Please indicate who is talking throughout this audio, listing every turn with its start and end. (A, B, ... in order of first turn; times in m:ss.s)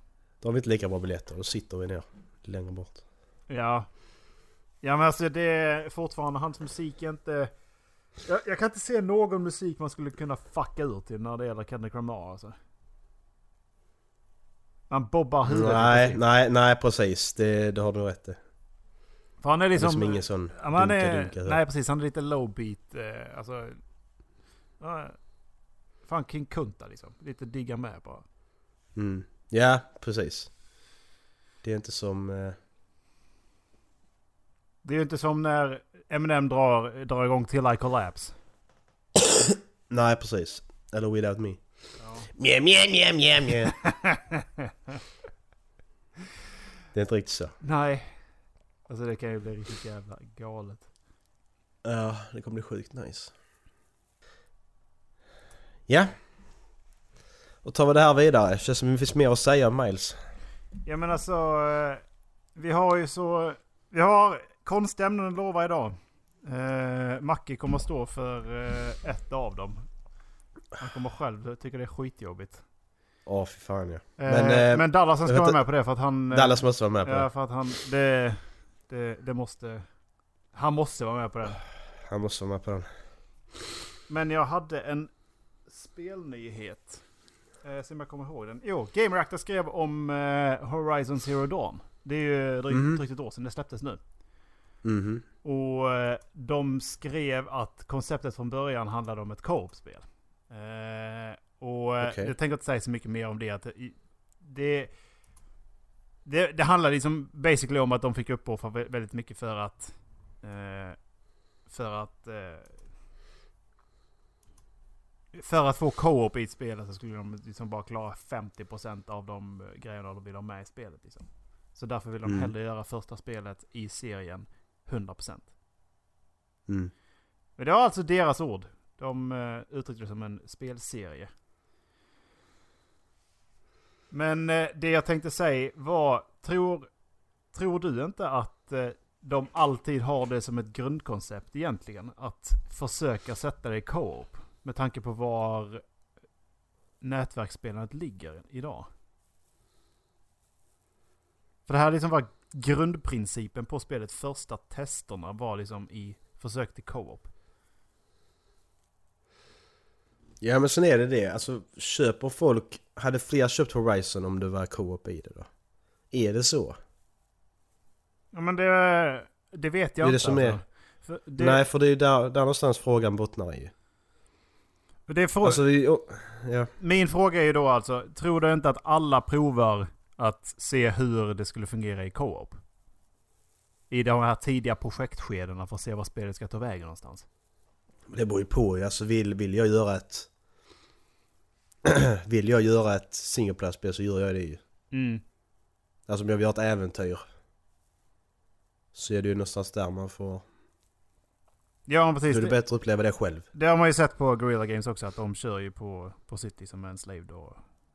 0:00.4-0:03.0 A
0:03.5-0:03.9 B
0:04.8-0:07.5 B
0:08.3-0:12.6 B
0:14.9-0:16.2 B
0:15.5-0:18.4 A
0:19.4-0:23.8 B
0:19.8-0:21.6 A
0:24.8-0:25.2 B
0:26.1-0:28.2 B
0:29.0-0:30.5 A
0:31.6-0:32.6 A
0:34.8-0:38.3 B
0:39.9-0:41.6 A
0:42.0-0:42.3 B
0:42.4-0:43.7 A
0:43.7-0:44.7 B
0:46.9-0:47.5 A
0:47.6-0:48.1 B
0:48.9-0:50.9 B
0:51.8-0:53.3 A
0:55.9-0:56.1 A
0:57.6-1:00.2 A
1:00.9-1:02.0 B
1:02.6-1:09.9 B
1:10.8-1:12.6 B
1:13.3-1:15.6 A
1:14.2-1:19.9 B
1:16.3-1:17.3 A
1:20.5-1:21.6 B
1:22.1-1:22.9 A
1:24.1-1:25.1 B
1:25.7-1:27.0 B
1:27.6-1:34.0 B
1:32.7-1:33.0 A
1:34.8-1:35.2 A
1:35.4-1:44.9 B
1:42.0-1:42.3 A
1:46.2-1:51.0 B
1:51.7-1:52.8 B
1:55.3-2:05.5 B
2:02.2-2:02.5 A
2:07.6-2:11.3 B
2:14.1-2:16.9 B
2:17.5-2:25.8 B
2:27.0-2:28.9 B
2:31.7-2:37.3 B
2:40.4-2:45.5 A
2:46.1-2:46.8 A
2:48.3-2:51.6 B
2:50.0-2:50.6 A
2:51.4-2:53.7 A
2:55.1-2:55.6 B
2:55.4-2:56.7 A
2:56.8-3:02.6 B
3:03.9-3:07.2 B
3:08.1-3:10.3 A
3:11.8-3:14.6 A
3:14.9-3:15.2 B
3:16.1-3:17.2 A
3:18.9-3:20.4 A
3:21.9-3:22.6 B
3:22.3-3:23.4 A
3:23.5-3:27.6 B